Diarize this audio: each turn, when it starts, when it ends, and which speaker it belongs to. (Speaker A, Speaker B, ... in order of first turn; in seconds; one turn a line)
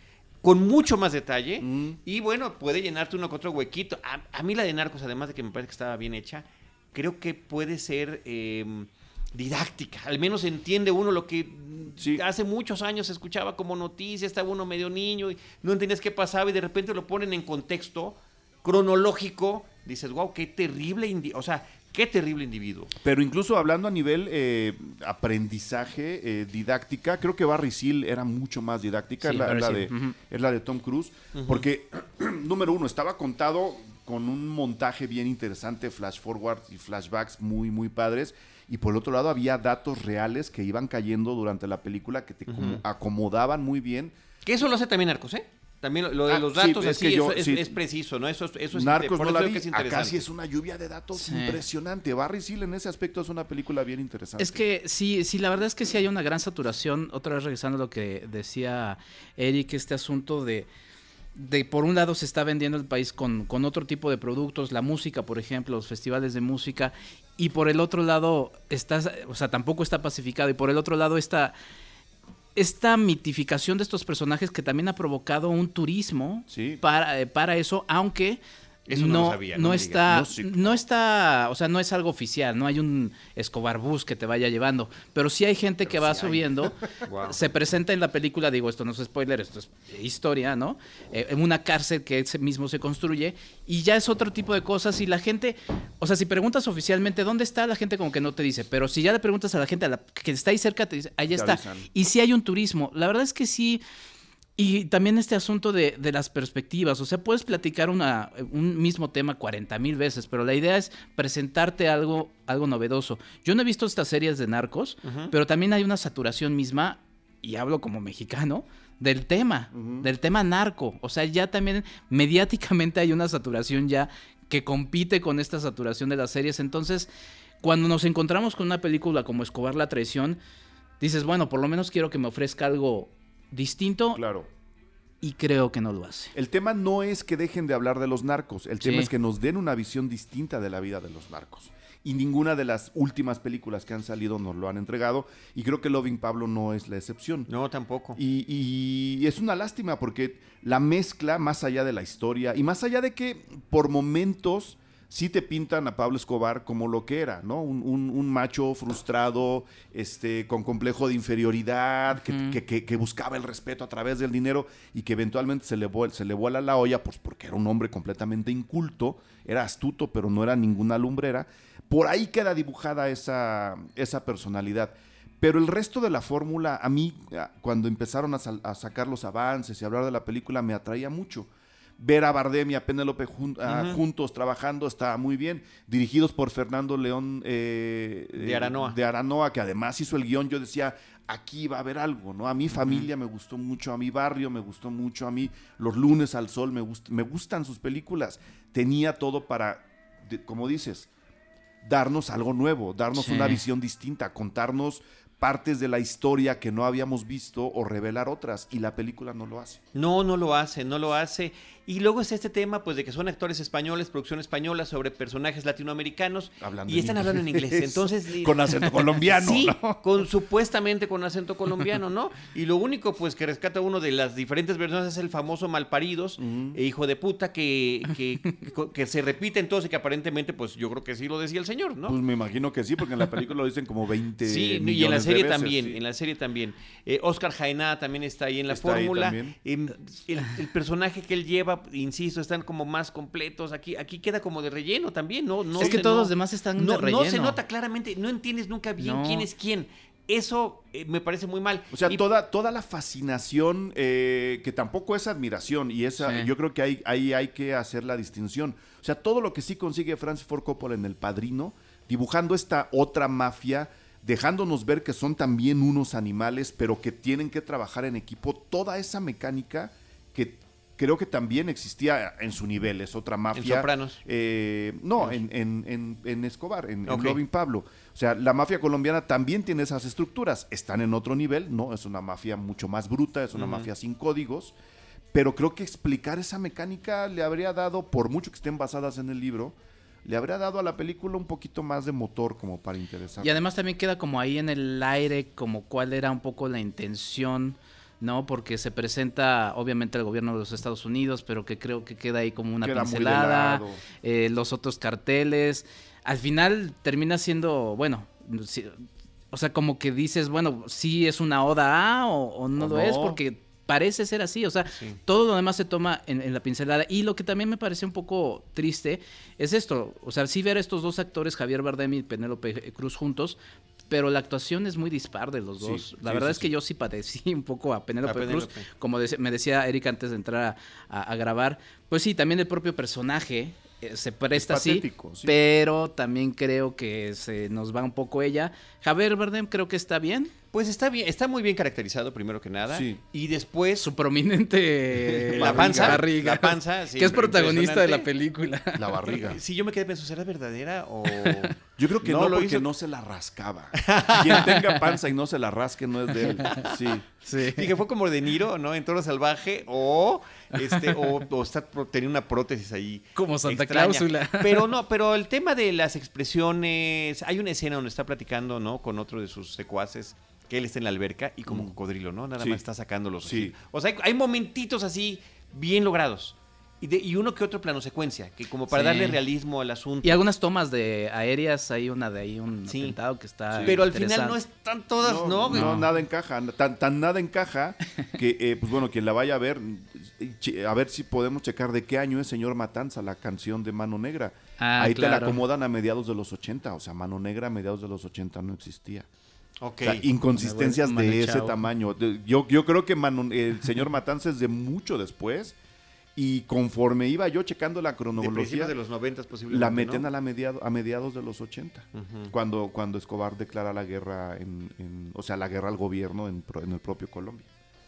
Speaker A: 0.4-22.9
Speaker B: 1.6-2.0
Speaker B: 12.0-12.2
Speaker B: 23.0-44.1
Speaker C: 29.2-30.1
Speaker A: 31.3-31.6
Speaker A: 42.5-42.8
Speaker A: 44.4-50.2
Speaker B: 46.3-47.7
Speaker B: 48.7-54.6
Speaker C: 51.1-51.6
Speaker C: 54.4-60.7
Speaker C: 61.3-71.5
Speaker C: 72.5-78.4
Speaker B: 76.5-76.8
Speaker A: 78.9-80.1
Speaker C: 78.9-103.8
Speaker B: 80.1-80.7
Speaker B: 85.9-86.7
Speaker A: 87.0-87.4
Speaker B: 101.3-101.9
Speaker C: 104.6-127.1
Speaker A: 115.0-115.3
Speaker B: 119.7-120.1
Speaker C: 127.6-130.4
Speaker C: 131.0-134.2
Speaker B: 134.1-134.5
Speaker C: 135.2-136.3
Speaker B: 136.3-147.5
Speaker C: 138.8-139.1
Speaker A: 147.5-148.2
Speaker B: 148.2-201.1
Speaker C: 162.1-162.6
Speaker A: 183.7-184.0
Speaker A: 188.4-189.0
Speaker B: 201.8-209.8
Speaker C: 203.1-203.6
Speaker A: 209.9-232.2
Speaker B: 216.6-220.3
Speaker B: 226.4-226.8
Speaker B: 232.1-236.0
Speaker A: 234.4-252.2
Speaker B: 238.7-239.6
Speaker C: 245.8-247.6
Speaker C: 249.0-249.5
Speaker B: 251.9-284.7
Speaker C: 256.2-256.5
Speaker A: 273.5-274.2
Speaker A: 277.1-277.4
Speaker A: 283.5-283.9
Speaker B: 285.3-293.6
Speaker C: 293.4-323.6
Speaker B: 302.8-304.0
Speaker B: 312.8-313.4
Speaker C: 324.1-340.5
Speaker B: 325.8-326.7
Speaker A: 328.2-328.9
Speaker B: 334.5-335.6
Speaker A: 340.7-344.1
Speaker B: 342.9-343.2
Speaker C: 344.0-349.2
Speaker B: 345.2-346.2
Speaker A: 345.5-348.3
Speaker B: 348.9-349.6
Speaker A: 349.2-352.9
Speaker C: 351.4-351.7
Speaker B: 352.0-357.2
Speaker A: 354.0-354.8
Speaker C: 354.5-355.0
Speaker C: 356.4-356.9
Speaker A: 356.7-356.9
Speaker C: 357.4-357.9
Speaker A: 357.6-380.4
Speaker C: 360.8-361.2
Speaker C: 363.4-364.9
Speaker B: 371.7-371.9
Speaker B: 373.4-373.7
Speaker C: 378.9-379.4
Speaker C: 380.2-384.6
Speaker A: 382.9-383.2
Speaker B: 383.7-384.0
Speaker A: 383.8-386.0
Speaker B: 385.2-399.3
Speaker C: 385.7-386.1
Speaker C: 394.8-395.6
Speaker A: 399.8-400.2
Speaker B: 400.0-405.8
Speaker C: 400.6-401.8
Speaker B: 406.3-408.9
Speaker A: 408.4-410.3
Speaker B: 409.7-417.7
Speaker A: 412.1-412.5